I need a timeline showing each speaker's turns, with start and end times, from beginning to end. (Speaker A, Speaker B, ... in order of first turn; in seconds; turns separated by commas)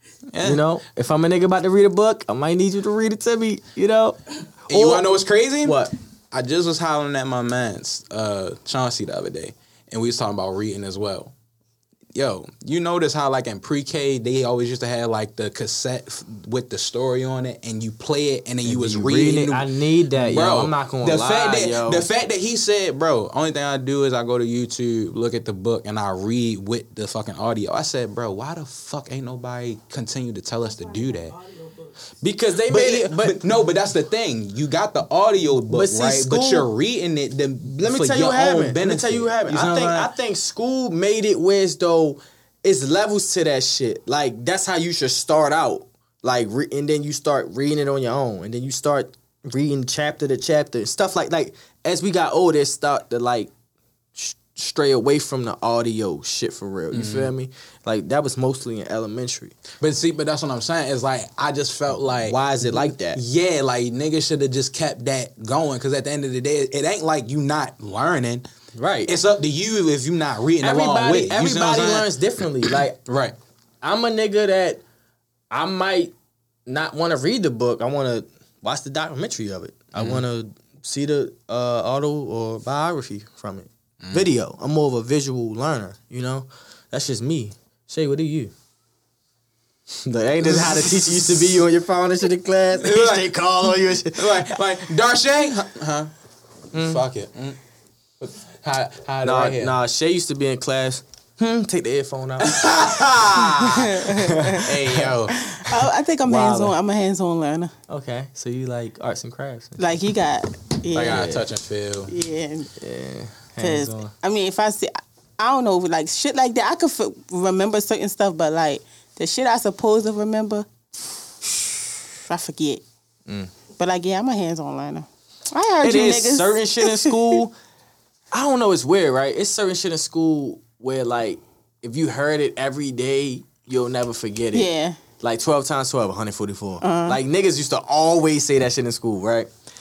Speaker A: 0.3-0.6, Speaker B: 0.4-5.1, Speaker A: 4.7-11.3, Speaker B: 5.6-5.9, Speaker A: 12.2-31.4, Speaker B: 18.6-22.1, Speaker B: 32.2-33.4, Speaker A: 32.6-40.1, Speaker B: 35.7-36.7, Speaker B: 37.8-53.5, Speaker B: 54.2-59.6, Speaker A: 56.9-57.3, Speaker A: 59.8-68.5, Speaker B: 62.2-63.2, Speaker B: 68.8-69.1, Speaker A: 69.1-72.1, Speaker B: 70.6-73.0, Speaker A: 72.6-73.3, Speaker B: 73.8-74.8, Speaker B: 75.5-76.1, Speaker B: 76.7-88.5, Speaker A: 79.9-80.2, Speaker A: 84.0-84.3, Speaker B: 90.0-94.6, Speaker A: 92.8-93.4, Speaker A: 94.1-96.1, Speaker B: 96.7-97.1, Speaker A: 96.7-97.6, Speaker A: 98.2-99.8, Speaker B: 99.2-102.6, Speaker A: 102.4-105.4, Speaker C: 103.6-104.6, Speaker B: 104.1-105.2, Speaker C: 105.4-107.7, Speaker B: 106.2-106.8, Speaker B: 107.9-110.0, Speaker C: 109.8-111.2, Speaker A: 110.9-112.1, Speaker B: 111.0-111.5, Speaker C: 112.1-112.7, Speaker B: 112.8-114.1, Speaker C: 113.6-120.7, Speaker C: 121.4-122.8, Speaker C: 123.8-127.4, Speaker B: 125.8-127.5, Speaker B: 128.3-139.5, Speaker C: 134.5-135.0, Speaker C: 136.8-137.2